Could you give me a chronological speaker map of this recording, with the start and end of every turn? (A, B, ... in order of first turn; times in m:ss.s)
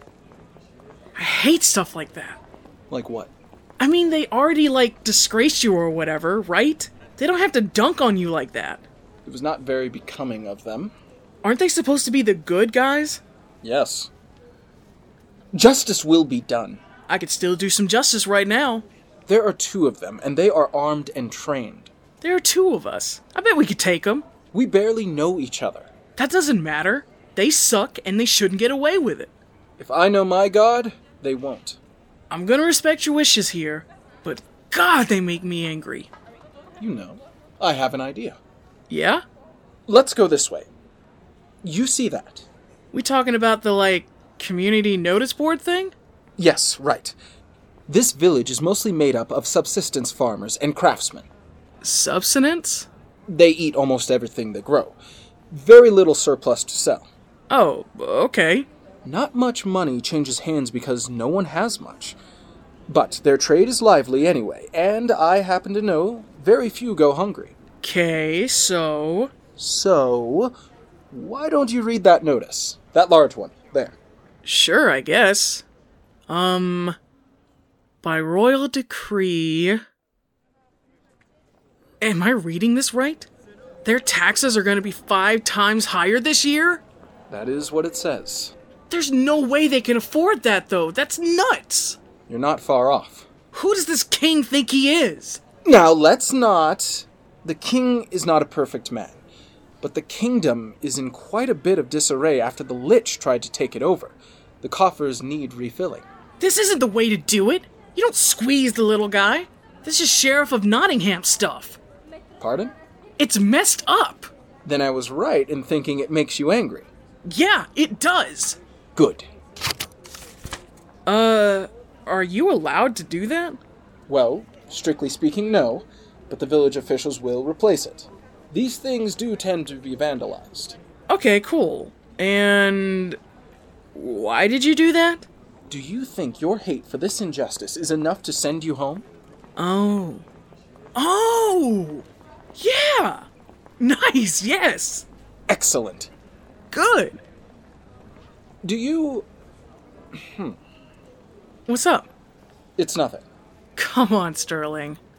0:01.2-0:02.4 A
0:02.9-0:03.3 B
0:03.8-0:08.8 A
0:09.2-0:10.9 B
0:11.4-0:13.2 A
0:13.6-0:14.1 B
0:15.5-0:16.8 B
0:17.1-0:18.9 A
0:19.3-0:21.9 B
0:22.2-0:24.3 A
0:24.5-0:25.9 B
0:26.2-0:29.3 A
0:29.8-0:31.8 B
0:32.3-0:36.1 A
0:36.8-0:38.4 B
0:38.9-0:39.2 A
0:39.9-0:40.7 B
0:41.6-0:42.5 B
0:42.9-0:45.9 A
0:46.4-0:47.2 B
0:47.9-0:51.3 B
0:51.8-0:52.9 A
0:53.3-0:55.0 B
0:55.5-0:57.1 B
0:57.5-0:58.7 A
0:59.0-1:02.2 B
1:02.9-1:07.6 B
1:07.8-1:09.3 A
1:09.6-1:10.5 B
1:11.1-1:14.0 B
1:14.4-1:15.6 A
1:16.3-1:17.0 A
1:18.0-1:19.8 A
1:22.0-1:23.3 A
1:23.8-1:26.8 A
1:27.3-1:28.5 B
1:28.9-1:32.0 A
1:32.3-1:33.3 B
1:33.5-1:35.4 A
1:35.6-1:39.2 B
1:39.8-1:46.0 B
1:46.4-1:51.8 A
1:52.4-1:52.7 B
1:53.2-1:54.3 A
1:54.6-1:56.9 B
1:57.3-1:58.6 A
1:59.0-1:59.3 B
2:01.1-2:03.6 A
2:04.1-2:10.8 B
2:11.1-2:13.2 A
2:14.0-2:15.3 A
2:15.7-2:19.1 B
2:19.6-2:20.2 A
2:21.0-2:22.0 A
2:22.6-2:23.3 A
2:23.8-2:25.0 A
2:25.5-2:26.1 B
2:26.7-2:27.2 A
2:28.6-2:29.3 B
2:30.1-2:30.6 B
2:31.7-2:32.1 A
2:32.8-2:33.2 B
2:33.8-2:35.0 A